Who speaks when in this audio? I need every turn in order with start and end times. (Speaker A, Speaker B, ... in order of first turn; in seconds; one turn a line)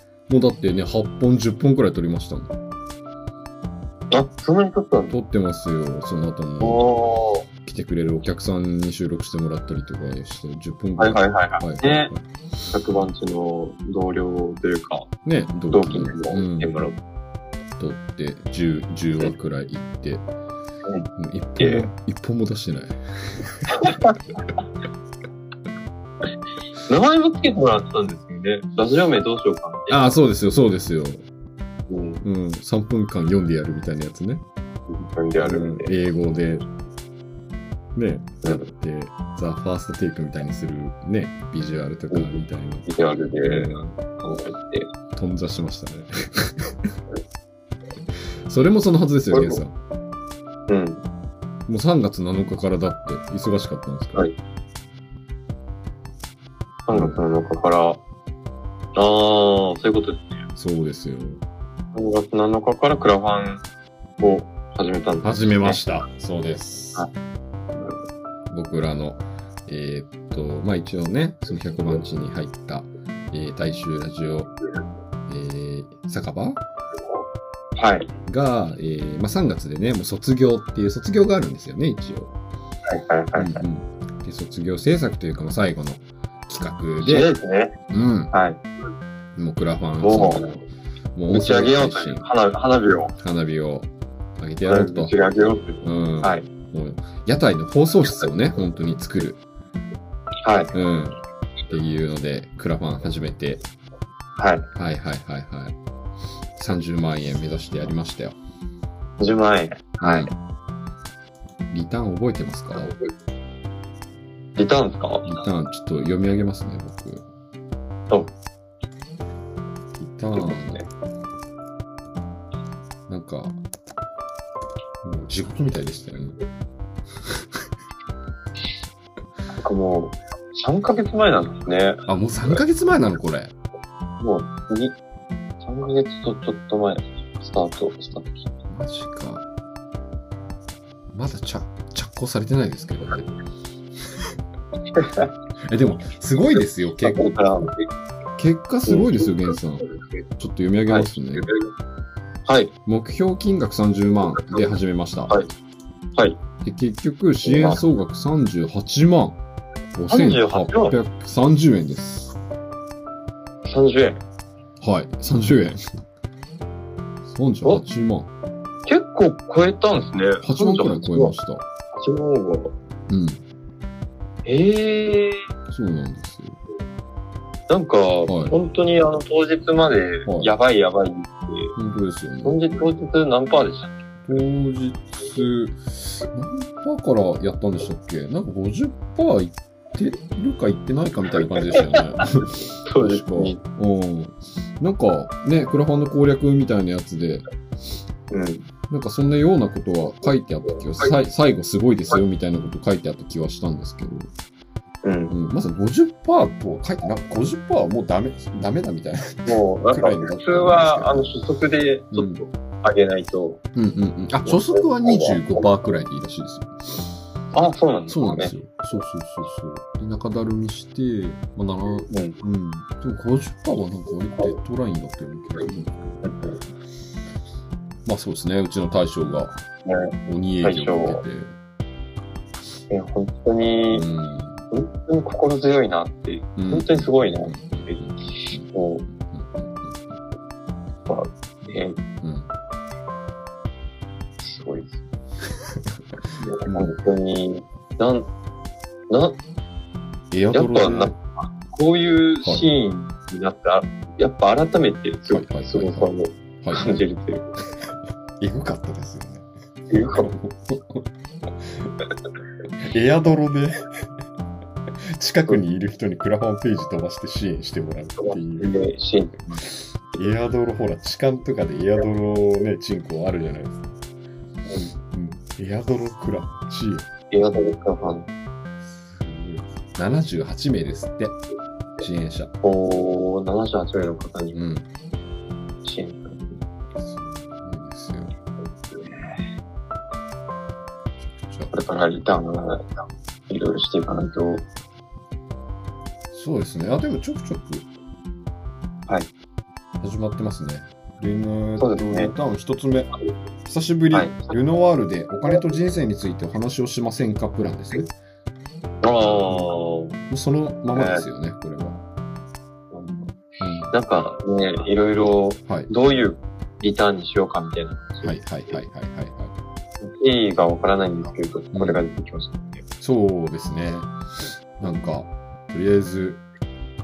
Speaker A: 0.3-2.5
Speaker B: 4.1-5.1
Speaker A: 5.1-6.9
Speaker B: 6.6-7.5
Speaker A: 7.6-12.2
Speaker B: 11.0-12.1
Speaker B: 12.7-15.1
Speaker A: 15.2-16.9
Speaker B: 15.7-17.0
Speaker A: 17.8-20.3
Speaker A: 21.2-23.7
Speaker B: 21.6-21.9
Speaker B: 23.8-24.1
Speaker B: 26.9-30.1
Speaker A: 29.9-31.3
Speaker B: 31.9-32.2
Speaker A: 32.2-34.5
Speaker B: 34.9-35.9
Speaker A: 35.4-36.6
Speaker A: 38.0-42.9
Speaker B: 42.1-44.9
Speaker A: 43.4-43.9
Speaker A: 45.1-46.9
Speaker A: 48.5-49.8
Speaker B: 49.3-49.6
Speaker B: 50.7-51.0
Speaker A: 51.7-54.3
Speaker B: 56.9-58.0
Speaker A: 56.9-57.2
Speaker B: 59.0-60.4
Speaker A: 60.6-61.4
Speaker B: 61.9-63.6
Speaker B: 64.2-65.9
Speaker A: 65.2-67.1
Speaker A: 68.5-74.5
Speaker A: 75.3-76.6
Speaker B: 77.8-78.1
Speaker A: 78.3-82.3
Speaker B: 82.9-83.6
Speaker A: 83.3-87.3
Speaker B: 87.0-87.8
Speaker A: 87.9-88.3
Speaker B: 88.3-88.6
Speaker A: 89.4-92.3
Speaker B: 90.0-90.5
Speaker B: 91.3-93.2
Speaker A: 93.2-99.4
Speaker B: 94.7-96.5
Speaker B: 100.4-100.7
Speaker A: 100.7-101.2
Speaker A: 101.7-103.7
Speaker B: 104.4-104.7
Speaker A: 104.8-105.8
Speaker A: 106.6-108.4
Speaker B: 109.2-110.3
Speaker A: 110.0-110.3
Speaker A: 111.7-113.0
Speaker B: 114.6-115.3
Speaker A: 115.2-117.2
Speaker A: 120.0-120.8
Speaker B: 120.3-120.9
Speaker A: 123.1-123.6
Speaker A: 125.0-126.4
Speaker B: 129.6-132.6
Speaker A: 132.1-133.5
Speaker B: 134.2-135.0
Speaker B: 135.6-138.5
Speaker A: 138.7-139.4
Speaker A: 141.1-143.3
Speaker B: 145.0-145.3
Speaker A: 145.7-147.3
Speaker B: 147.1-147.9
Speaker A: 148.4-149.9
Speaker B: 148.9-149.5
Speaker A: 150.4-151.5
Speaker B: 150.9-151.6
Speaker B: 152.5-152.7
Speaker A: 152.9-155.4
Speaker A: 156.6-159.4
Speaker B: 157.4-157.8
Speaker A: 159.9-162.4
Speaker B: 160.1-161.0
Speaker B: 163.7-164.2
Speaker A: 164.8-165.8
Speaker A: 167.3-168.3
Speaker B: 168.9-171.3
Speaker A: 170.4-171.7
Speaker B: 171.9-172.7
Speaker A: 173.1-173.4
Speaker B: 174.5-175.5
Speaker A: 175.7-176.6
Speaker B: 177.7-181.7
Speaker A: 178.3-178.6
Speaker A: 180.3-180.5
Speaker A: 181.8-182.6
Speaker B: 182.4-184.4
Speaker A: 184.3-197.4
Speaker B: 192.8-193.6
Speaker B: 198.3-198.7
Speaker A: 198.9-204.3
Speaker B: 205.0-205.3
Speaker A: 205.3-211.3
Speaker B: 209.5-213.6
Speaker A: 212.1-212.4
Speaker A: 213.7-217.1
Speaker B: 214.5-215.4
Speaker B: 217.5-218.5
Speaker A: 218.1-226.5
Speaker B: 222.1-222.4
Speaker B: 226.2-226.5
Speaker A: 228.1-229.7
Speaker B: 229.9-230.1
Speaker A: 230.3-231.5
Speaker B: 230.6-231.2
Speaker B: 232.9-234.1
Speaker A: 233.9-234.7
Speaker B: 234.7-239.1
Speaker A: 236.6-240.2
Speaker B: 241.1-242.0
Speaker A: 242.2-242.5
Speaker B: 244.4-245.0
Speaker B: 246.4-248.3
Speaker A: 246.7-247.0
Speaker B: 249.1-249.4
Speaker A: 250.3-251.2
Speaker B: 250.5-257.5
Speaker A: 255.3-256.9
Speaker A: 258.4-261.1
Speaker B: 259.9-260.3
Speaker A: 262.8-263.8
Speaker A: 265.0-268.8
Speaker B: 268.2-269.6
Speaker A: 270.1-273.9
Speaker A: 275.1-277.1
Speaker B: 277.3-278.3
Speaker A: 278.8-281.4
Speaker A: 282.0-282.5
Speaker B: 282.6-284.6
Speaker A: 284.5-284.9
Speaker B: 285.8-286.6
Speaker A: 287.0-288.3
Speaker B: 288.9-289.4
Speaker A: 291.2-291.7
Speaker B: 291.7-292.9
Speaker B: 293.5-294.6
Speaker A: 296.3-297.9
Speaker A: 300.0-303.1
Speaker B: 301.8-302.3
Speaker A: 303.6-308.1
Speaker B: 304.1-304.5
Speaker B: 309.0-310.2
Speaker A: 309.5-309.7
Speaker A: 310.3-312.0
Speaker B: 310.9-311.2
Speaker B: 312.9-313.4
Speaker A: 313.6-313.9
Speaker B: 313.9-318.8
Speaker A: 318.2-319.6
Speaker B: 320.0-322.8
Speaker A: 321.7-322.0
Speaker A: 323.0-324.1
Speaker A: 324.8-326.4